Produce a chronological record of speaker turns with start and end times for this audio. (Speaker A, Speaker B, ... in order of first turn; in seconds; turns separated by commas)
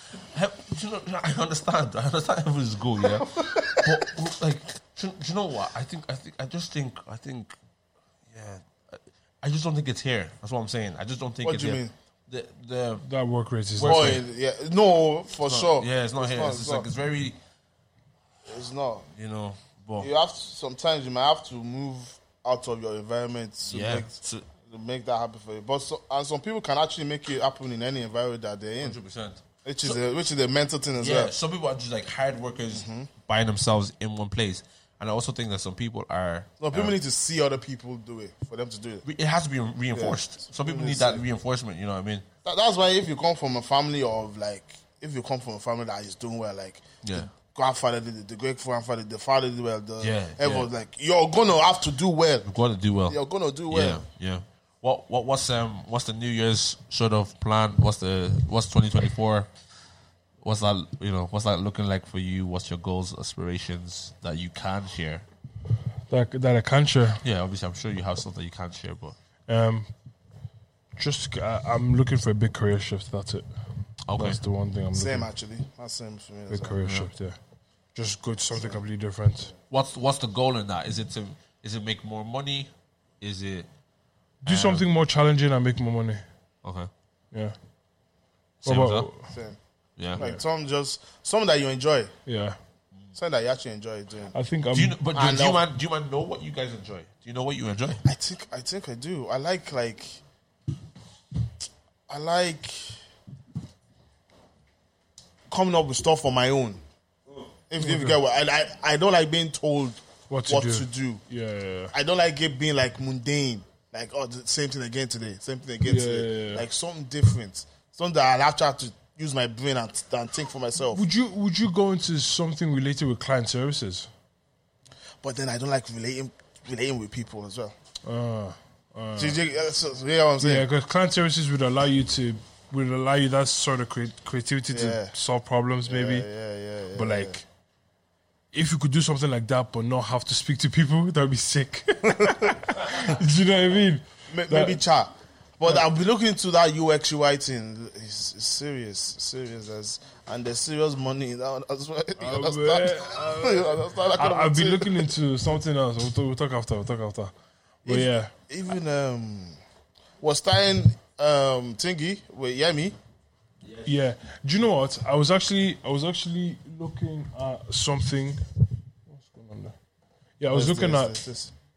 Speaker A: 0.3-7.6, Speaker B: 3.1-4.1, Speaker A: 8.3-13.1, Speaker B: 11.4-11.9, Speaker C: 13.0-14.2, Speaker A: 13.8-14.2, Speaker B: 13.8-16.9, Speaker A: 15.4-17.4, Speaker B: 18.5-19.1, Speaker A: 19.1-20.1, Speaker B: 20.0-29.0, Speaker A: 23.7-24.5, Speaker A: 28.8-30.0, Speaker B: 29.6-31.3, Speaker A: 31.0-37.0, Speaker B: 32.7-33.1, Speaker B: 36.6-39.0, Speaker A: 39.0-42.3, Speaker B: 39.9-41.2, Speaker B: 42.5-52.5, Speaker A: 47.0-47.3, Speaker A: 50.0-50.7, Speaker A: 52.5-59.5, Speaker B: 53.1-54.0, Speaker A: 60.4-65.3, Speaker C: 66.1-67.2, Speaker A: 67.2-69.2, Speaker C: 69.5-69.9, Speaker C: 71.0-75.3, Speaker A: 74.1-74.4, Speaker B: 74.9-76.8, Speaker C: 76.5-77.4, Speaker A: 76.8-77.1, Speaker C: 78.0-79.5, Speaker A: 79.7-83.7, Speaker C: 84.4-86.2, Speaker A: 84.5-84.9, Speaker A: 86.6-86.9, Speaker A: 88.6-89.1, Speaker C: 88.7-89.3, Speaker B: 89.3-89.6, Speaker A: 90.0-90.3, Speaker B: 90.1-92.1, Speaker C: 92.3-92.6, Speaker B: 93.2-94.3, Speaker C: 94.3-95.0, Speaker A: 94.7-98.0, Speaker B: 95.1-95.6, Speaker B: 98.0-100.2, Speaker B: 102.1-103.0, Speaker B: 105.5-106.8, Speaker B: 107.7-111.2, Speaker C: 107.8-108.2, Speaker C: 110.3-111.9, Speaker B: 111.9-121.0, Speaker C: 115.8-116.7, Speaker C: 120.9-124.1, Speaker B: 125.2-127.8, Speaker C: 128.0-129.4, Speaker B: 129.2-130.7, Speaker C: 130.4-136.3, Speaker B: 134.7-135.1, Speaker B: 135.9-137.4, Speaker C: 136.9-137.5, Speaker C: 138.5-144.8, Speaker B: 142.2-143.1, Speaker B: 144.3-155.1, Speaker C: 152.2-157.3, Speaker C: 157.8-158.3, Speaker B: 157.8-159.6, Speaker B: 160.2-163.0, Speaker C: 163.8-168.4, Speaker C: 169.1-169.8, Speaker C: 170.4-171.2, Speaker B: 170.5-171.5